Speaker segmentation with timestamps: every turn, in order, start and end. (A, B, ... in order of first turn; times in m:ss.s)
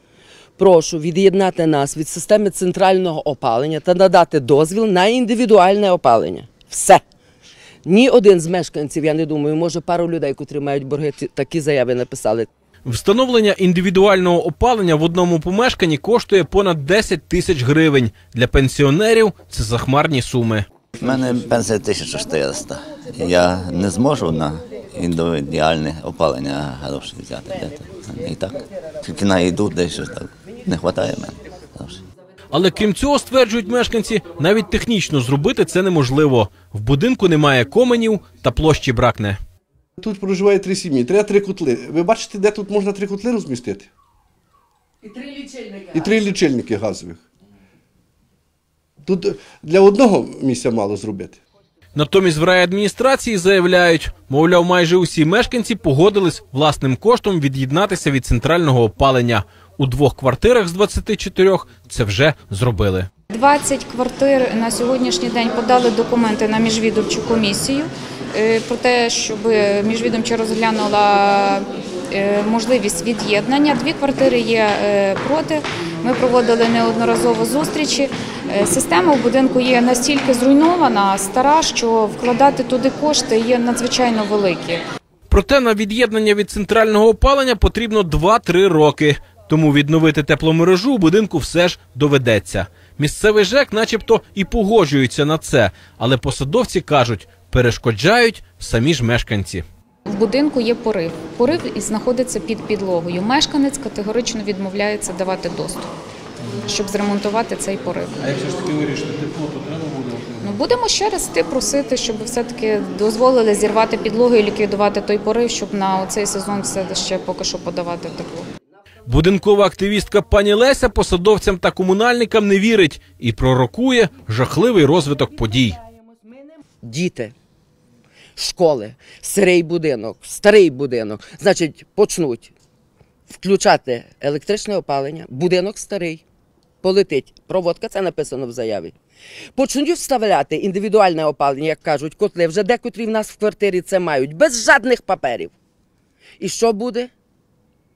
0:00.6-0:07.0 A
0:07.8-0:12.5 A
0:12.8-0:20.6 B
0:21.0-0:32.0 C
0:32.5-0:39.4 B
0:40.0-0:43.9 D
0:45.2-0:45.8 A
0:45.9-0:47.2 D
0:49.0-0:51.4 D
0:52.0-1:03.1 B
1:03.3-1:24.8 E
1:25.3-1:39.6 B
1:40.1-1:45.9 E
1:46.7-1:48.2 E
1:48.2-1:50.3 B
1:50.4-1:58.4 E
1:59.0-2:05.8 B
2:06.8-2:07.3 A
2:08.4-2:12.5 A
2:13.3-2:16.2 A
2:16.8-2:18.9 A
2:19.5-2:25.5 A
2:26.4-2:27.1 A